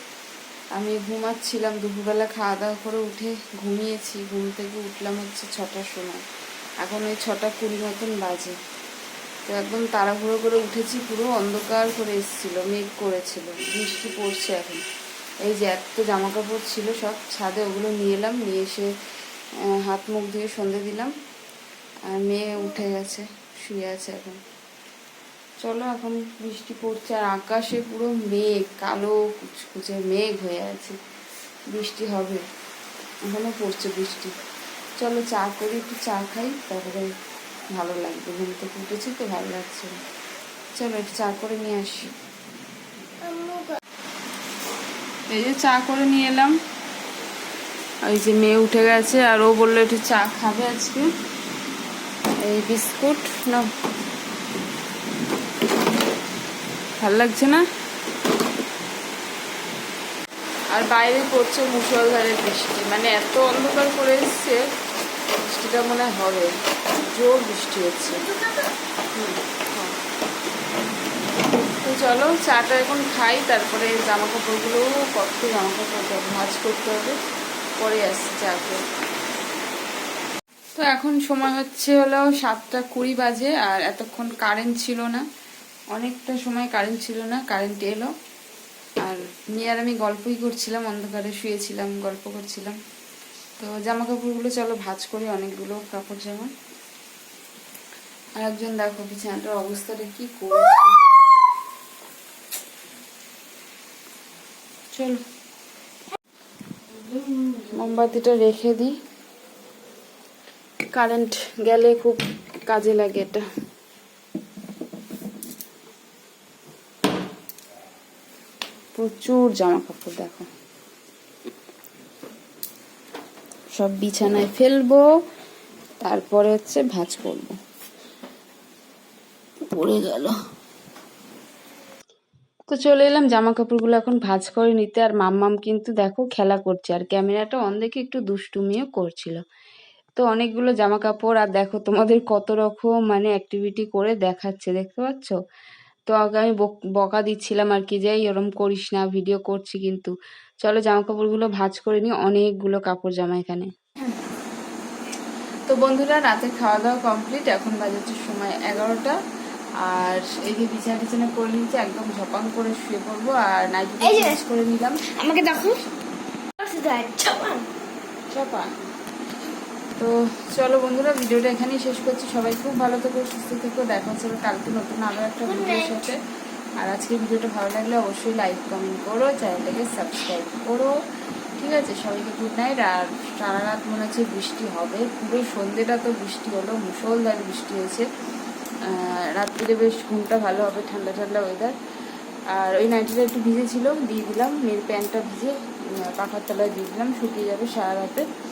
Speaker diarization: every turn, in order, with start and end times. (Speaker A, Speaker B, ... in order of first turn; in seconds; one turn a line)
Speaker A: 0.7-6.2
Speaker A: 6.8-8.6
Speaker A: 9.5-14.8
Speaker A: 15.4-18.9
Speaker A: 19.6-21.1
Speaker A: 22.1-24.4
Speaker A: 25.6-31.0
Speaker A: 31.7-32.4
Speaker A: 33.2-34.3
Speaker A: 35.0-37.1
Speaker A: 37.7-40.0
Speaker A: 40.7-42.1
Speaker B: 43.2-43.7
Speaker A: 45.3-46.6
Speaker A: 48.0-51.1
Speaker A: 52.4-53.7
Speaker A: 57.0-57.6
Speaker A: 60.7-64.7
Speaker A: 65.4-68.3
Speaker A: 69.1-70.0
Speaker A: 71.8-77.2
Speaker A: 77.8-78.8
Speaker A: 80.8-85.2
Speaker A: 85.9-88.1
Speaker A: 89.0-92.8
Speaker A: 93.6-96.5
Speaker A: 98.4-101.0
Speaker A: 104.9-105.2
Speaker B: 107.0-107.7
Speaker A: 107.6-109.0
Speaker A: 110.9-113.5
Speaker A: 119.0-120.5
Speaker A: 123.7-125.0
Speaker A: 126.0-127.5
Speaker A: 129.7-130.4
Speaker A: 132.7-139.4
Speaker A: 140.2-145.4
Speaker A: 146.1-153.7
Speaker A: 155.7-159.2
Speaker A: 159.8-165.0
Speaker B: 164.1-164.4
Speaker B: 165.1-165.8
Speaker B: 166.6-167.7
Speaker A: 168.3-168.7
Speaker A: 170.0-176.2
Speaker B: 175.6-175.9
Speaker A: 176.8-180.9
Speaker A: 181.6-188.1
Speaker A: 188.8-191.8
Speaker A: 192.5-198.3